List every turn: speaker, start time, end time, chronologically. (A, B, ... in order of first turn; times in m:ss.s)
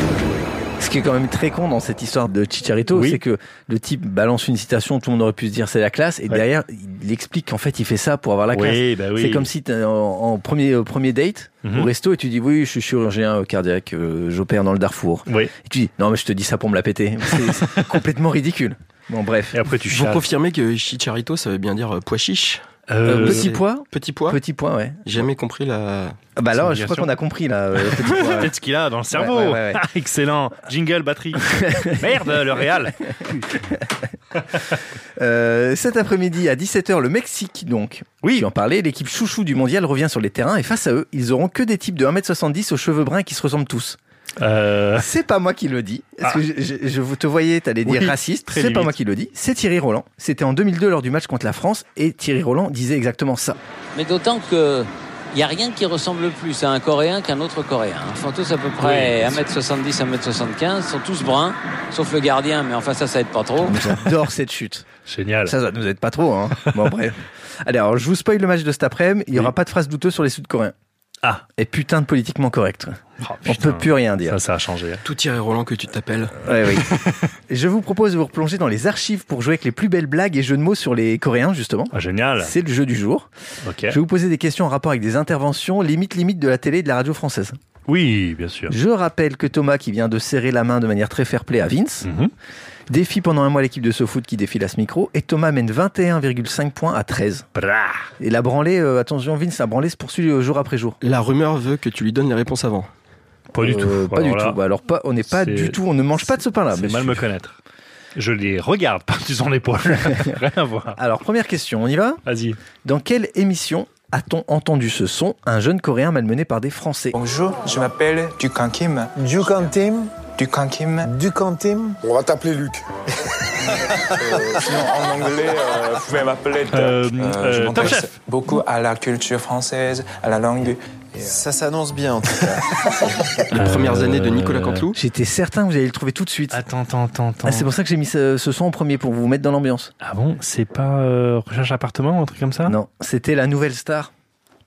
0:00.8-0:19.6 A
0:02.9-0:03.2 B
0:08.5-0:09.5 B
0:11.6-0:11.9 B
0:15.3-0:15.5 B
0:19.5-0:20.2 B
0:19.9-0:24.4 C
0:22.9-0:23.6 B
0:23.0-0:25.1 A
0:25.0-0:26.2 C
0:26.4-0:28.5 A
0:26.5-0:27.1 B
0:27.8-0:33.6 B
0:29.1-0:29.8 A
0:31.5-0:32.5 A
0:35.2-0:44.0 A
0:38.2-0:38.5 B
0:44.4-0:45.1 B
0:45.0-0:53.6 A
0:47.8-0:49.0 B
0:53.9-1:03.8 D
0:58.8-0:59.4 B
1:03.6-1:04.8 A
1:05.0-1:05.5 B
1:05.4-1:10.7 A
1:11.6-1:14.4 A
1:13.2-1:15.0 B
1:15.0-1:16.3 C
1:16.4-1:16.9 A
1:16.8-1:17.3 B
1:17.5-1:23.3 A
1:21.9-1:22.5 B
1:23.6-1:24.0 B
1:23.9-1:27.5 A
1:27.9-1:28.7 B
1:28.7-1:32.1 A
1:32.0-1:32.3 B
1:32.9-1:37.5 A
1:37.5-1:38.1 B
1:38.2-1:41.0 A
1:41.0-1:42.9 C
1:43.5-1:44.6 B
1:43.6-1:47.2 A
1:45.3-1:45.8 B
1:46.7-1:47.6 B
1:48.1-1:51.0 B
1:51.0-1:52.2 A
1:52.2-1:52.6 B
1:52.8-1:57.1 A
1:57.1-2:02.8 E
2:03.6-2:13.2 E
2:06.7-2:08.1 B
2:13.5-2:15.0 C
2:13.5-2:14.9 B
2:14.9-2:16.6 A
2:16.5-2:17.7 B
2:17.4-2:19.9 A
2:20.0-2:22.7 B
2:22.6-2:24.1 A